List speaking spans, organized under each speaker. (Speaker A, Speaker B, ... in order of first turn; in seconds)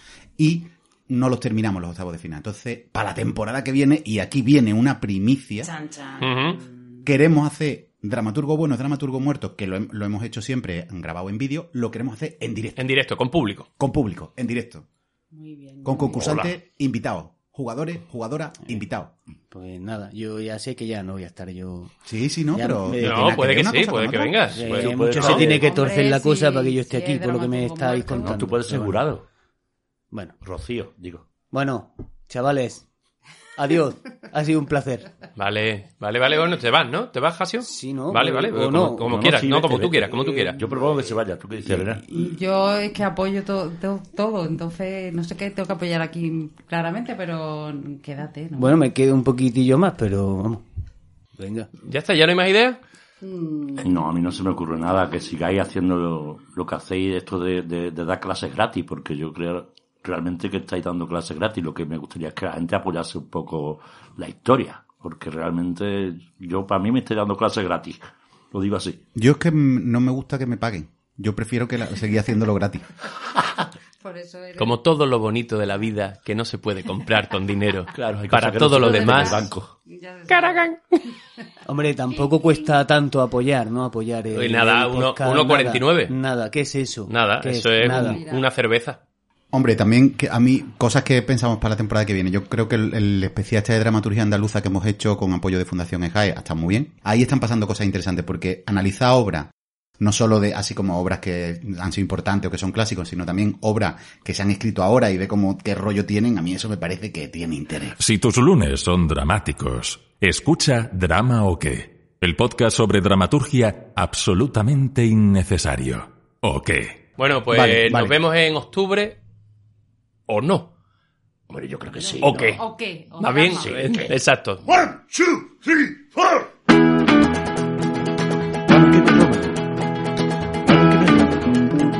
Speaker A: 0.4-5.7, 7.0-12.8, 13.8-14.9, 15.8-19.1, 22.1-24.4, 69.1-72.9, 89.5-108.0, 117.5-118.1
Speaker B: 5.6-6.8, 15.3-16.2, 25.4-28.4, 42.1-48.8, 53.2-53.9, 74.0-74.8, 78.8-80.7, 82.1-82.7, 88.0-88.5, 122.0-123.7
Speaker C: 6.2-6.6, 12.8-13.7, 23.0-25.4, 35.4-40.6, 51.8-52.8, 74.6-79.5, 80.3-81.0, 84.3-86.1, 87.1-89.0, 117.2-119.2, 120.3-120.7, 122.2-122.6, 123.2-124.6
Speaker D: 19.5-21.9, 22.5-23.7, 24.5-29.0, 31.5-32.9, 33.6-35.1, 37.6-39.3, 41.7-42.3, 48.6-50.6, 51.4-51.7, 81.7-88.2
Speaker E: 24.6-25.6, 28.2-29.2, 30.4-31.3, 39.0-42.0, 53.8-69.0, 77.9-79.7, 121.5-122.6, 123.5-125.9, 128.7-129.5, 130.7-131.4
Speaker F: 108.0-117.0